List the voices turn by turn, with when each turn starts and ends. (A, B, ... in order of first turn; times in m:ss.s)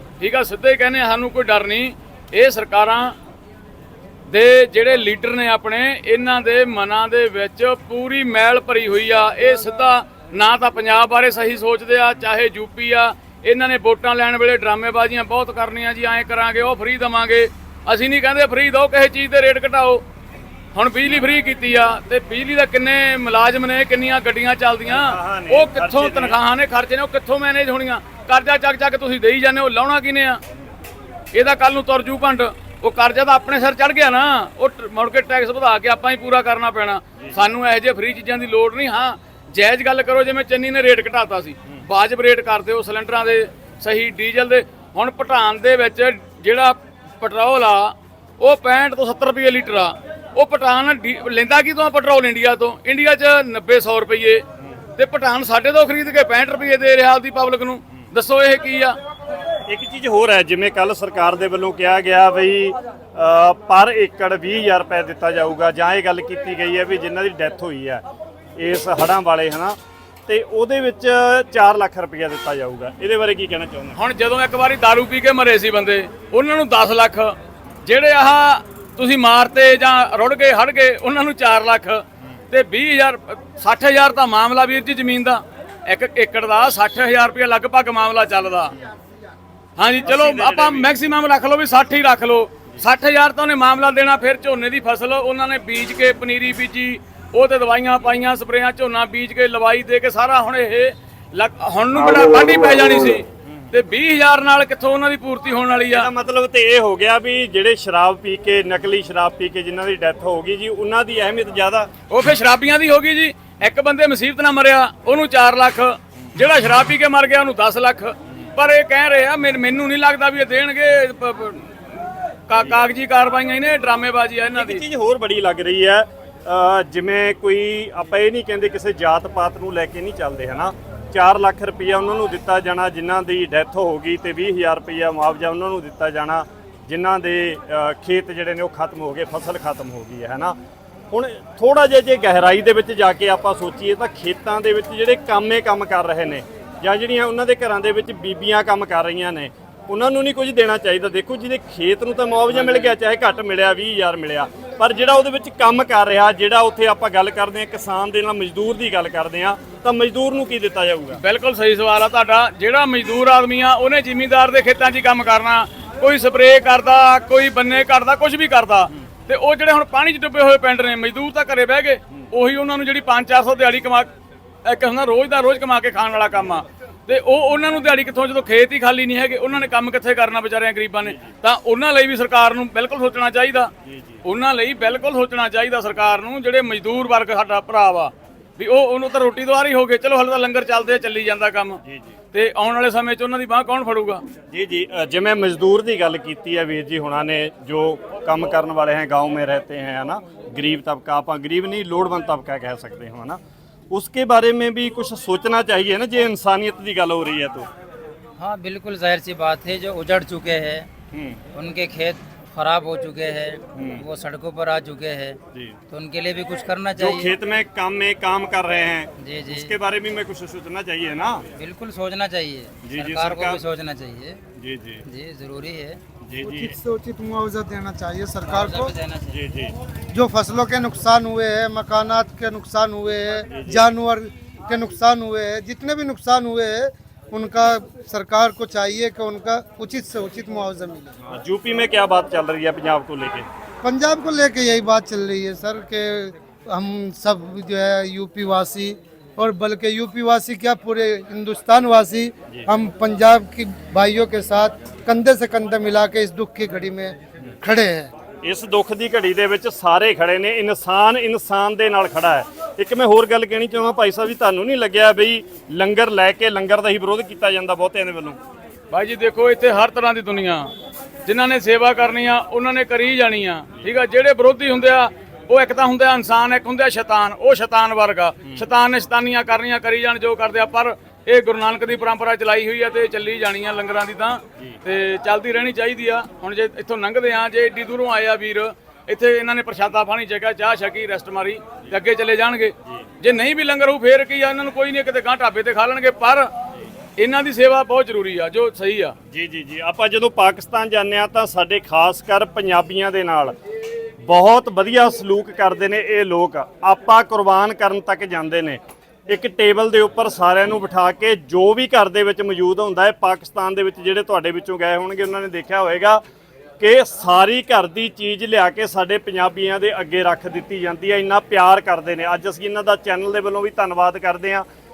0:00.2-0:03.1 A
0:04.3-0:20.0 A
0:20.7-0:30.4 A
0:24.8-0:26.4 B
0:31.3-0:54.4 A
0:55.0-0:59.0 A
0:59.7-1:08.0 B
1:08.6-1:09.8 B
1:10.3-1:14.0 B
1:14.0-1:28.7 A
1:29.8-1:46.1 A
1:30.0-1:30.9 B
1:42.0-1:43.8 B
1:45.9-1:51.9 B
1:52.1-2:04.8 A
2:04.5-2:20.6 B
2:21.1-2:41.2 B
2:32.5-2:32.9 A
2:41.2-2:54.1 A
2:54.6-3:03.7 A
3:01.0-3:01.4 B
3:03.8-3:04.2 B
3:04.2-3:11.8 A
3:11.8-3:12.2 B
3:12.3-3:14.2 A
3:14.5-3:23.4 B
3:23.9-3:27.7 B
3:28.4-3:30.9 C
3:31.1-3:31.4 B
3:31.5-3:35.4 C
3:33.7-3:34.0 B
3:35.5-3:35.8 B
3:35.9-3:37.3 C
3:37.0-3:41.4 B
3:39.2-3:39.7 C
3:41.6-3:44.4 C
3:42.8-3:43.6 B
3:44.6-3:45.0 B
3:45.0-3:46.0 C
3:46.2-3:46.8 B
3:46.4-3:48.9 D
3:48.4-3:49.4 C
3:49.3-3:49.7 B
3:50.1-4:01.1 D
3:53.5-3:53.8 B
4:01.2-4:03.5 B
4:03.8-4:18.1 D
4:18.4-4:28.4 B
4:28.9-4:30.7 A
4:31.2-4:56.5 A
4:57.2-4:59.1 A
4:59.3-5:03.5 B
5:04.2-5:16.2 B
5:16.8-5:24.6 B